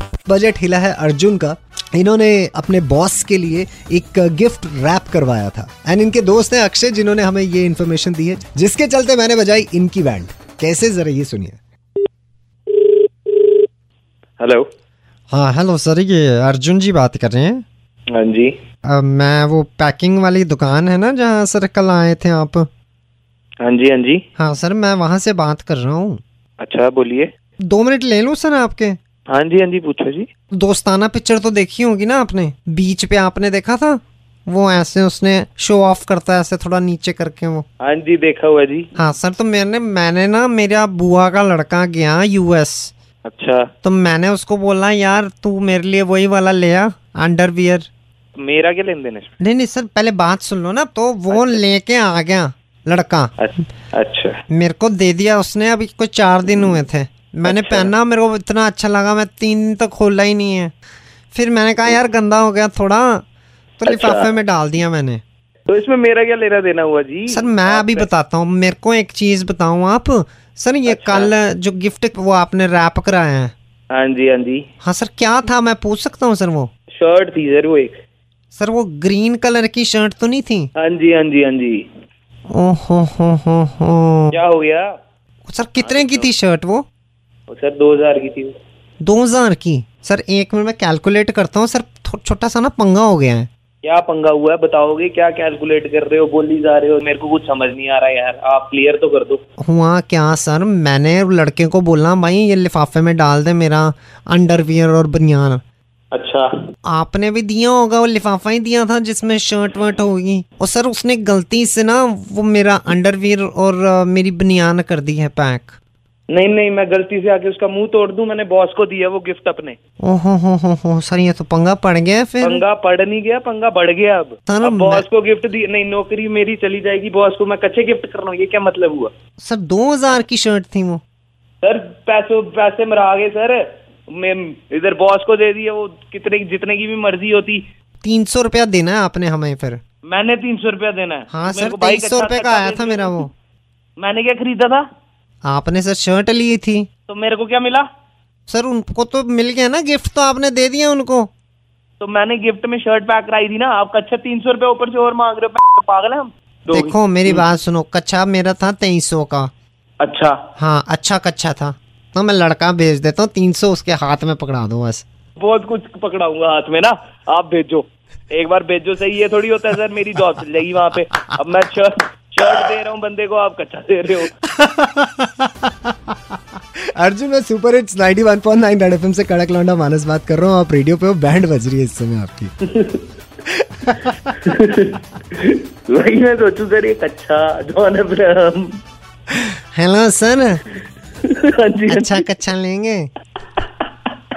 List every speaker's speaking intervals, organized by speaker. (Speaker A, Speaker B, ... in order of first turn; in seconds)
Speaker A: 0.3-11.6, 15.3-17.6, 18.9-22.7, 24.4-26.2, 27.6-29.0, 30.5-37.6, 39.0-42.9, 43.8-47.9, 49.4-53.3, 54.5-60.7, 61.3-63.2, 63.8-65.2, 67.3-73.5, 74.8-76.7, 78.5-80.7, 82.5-84.4, 85.5-86.8, 89.0-93.5, 99.6-105.6, 106.9-115.8, 120.0-122.6, 124.5-125.0, 129.4-131.0, 138.0-139.8, 141.3-143.3, 145.4-146.9, 148.5-151.3, 156.7-159.5, 160.6-165.0, 174.5-175.9, 176.9-182.5, 183.5-184.3, 189.4-190.6, 191.9-193.1
Speaker B: 14.4-14.6, 18.1-18.6, 23.6-24.2, 26.6-27.3, 29.3-30.3, 37.8-38.9, 43.3-43.7, 48.4-49.3, 51.3-51.6, 53.4-54.4, 57.5-57.9, 63.9-64.3, 65.7-68.1, 70.9-71.3, 73.9-74.7, 76.9-78.0, 80.8-81.8, 84.3-84.9, 85.8-86.3, 87.5-88.5, 93.8-99.4, 106.1-106.5, 116.3-119.8, 122.4-129.1, 131.6-137.6, 140.1-143.2, 144.0-144.8, 147.1-147.8, 152.0-157.5, 160.0-160.3, 165.3-174.3, 182.6-183.0, 184.3-188.8, 191.2-192.2, 193.6-193.9